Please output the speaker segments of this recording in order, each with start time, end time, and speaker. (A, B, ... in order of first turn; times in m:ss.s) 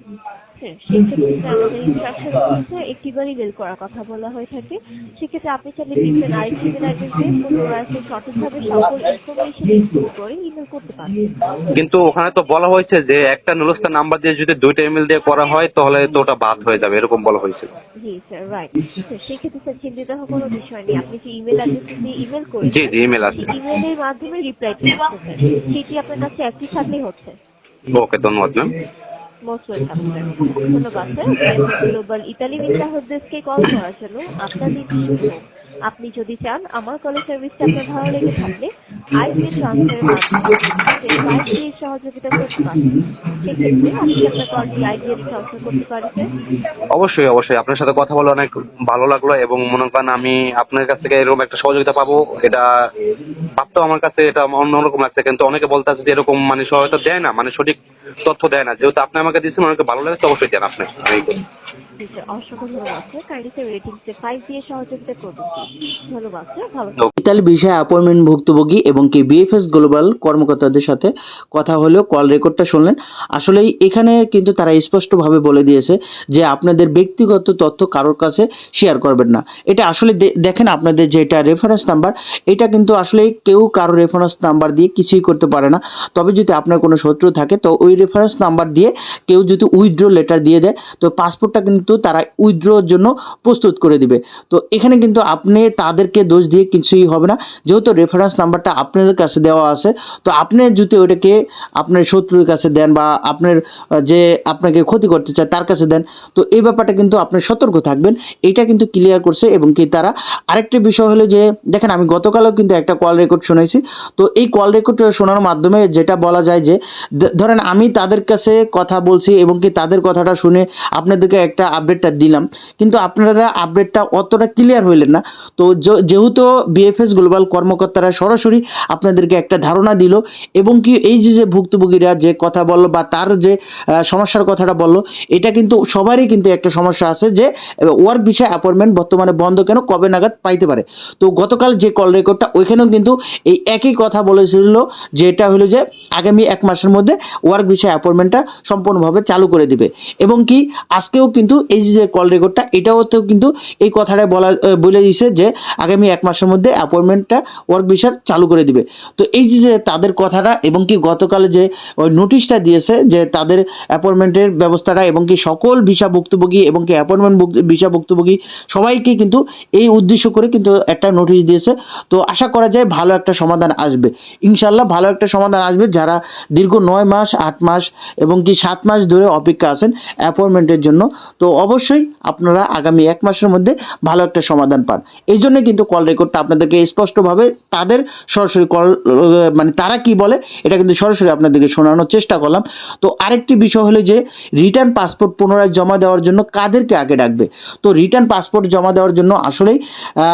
0:00.6-0:11.4 A
0:11.7-0:17.7 B
0:18.0-0:27.4 A
0:22.7-0:23.6 B
0:27.9-0:28.7 B
0:29.4-0:46.4 A
0:46.9-0:52.7 B
0:53.6-1:01.4 B
1:02.0-1:07.0 A
1:07.2-2:13.6 C
2:14.1-3:19.8 C